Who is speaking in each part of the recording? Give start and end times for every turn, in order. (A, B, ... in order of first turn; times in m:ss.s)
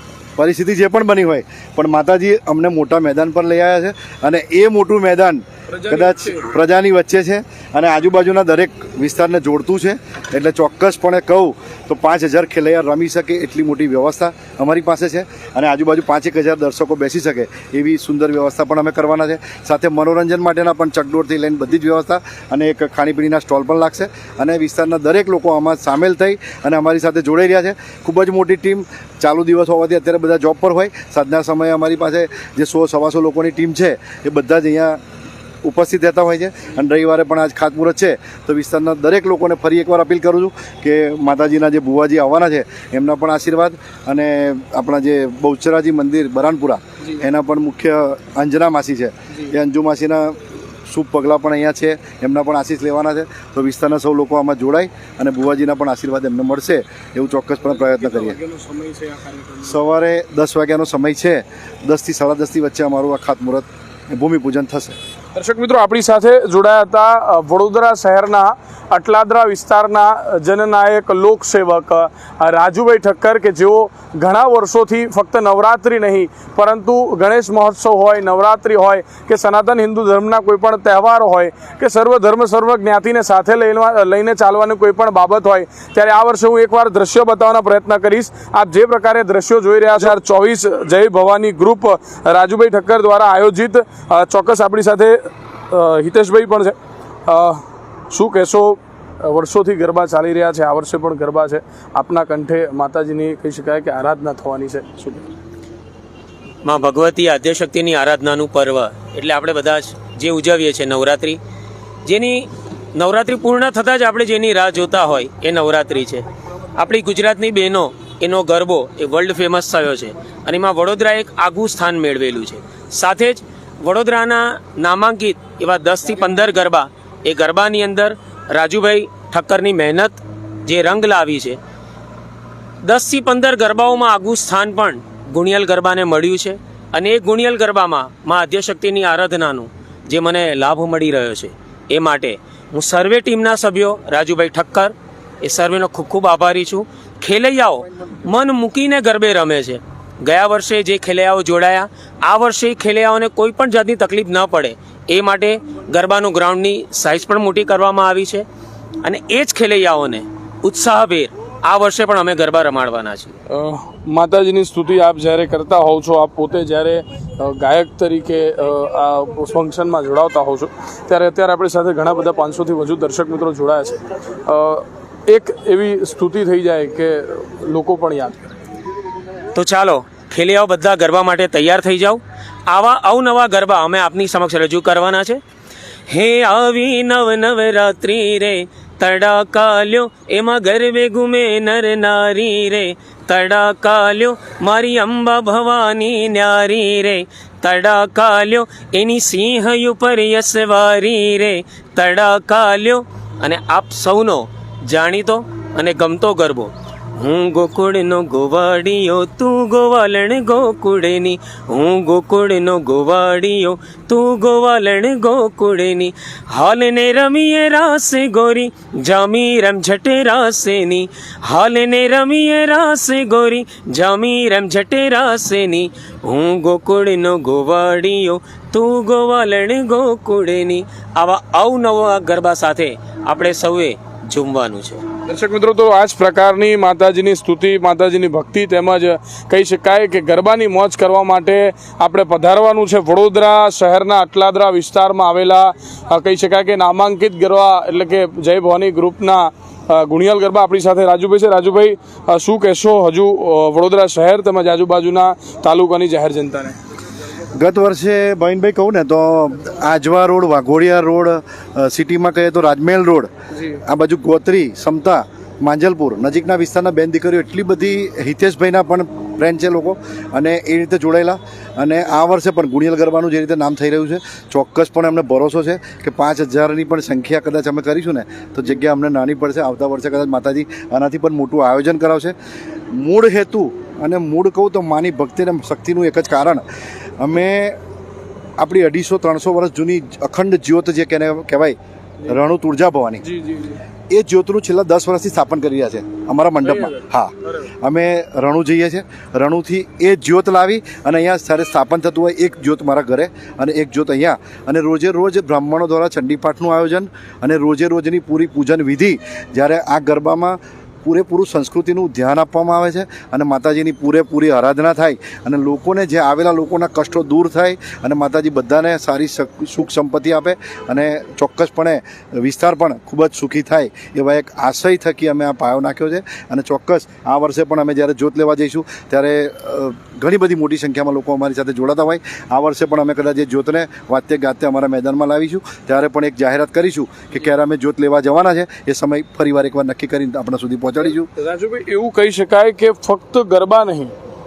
0:00.4-0:35.0 A
0:05.7-0:06.5 B
0:35.6-0:58.4 A
0:49.3-0:49.6 B
0:57.7-0:59.8 B
0:59.6-1:05.0 A
1:05.3-1:45.3 B
1:46.6-1:51.4 C
1:52.0-1:56.2 C
1:56.8-2:11.6 C
2:12.8-2:38.5 C
2:39.0-2:43.3 C
2:43.5-2:58.5 B
2:59.5-3:05.4 C
3:06.1-3:55.0 C
3:55.3-4:16.8 B
4:17.5-4:23.3 A
4:23.5-4:23.8 B
4:23.8-4:42.3 A
4:42.9-4:46.6 A
4:47.2-4:47.8 A
4:48.6-4:51.8 A
4:52.3-4:53.2 A
4:53.2-4:53.8 B
4:54.1-5:41.3 A
4:56.6-4:57.0 B
5:41.3-5:44.1 B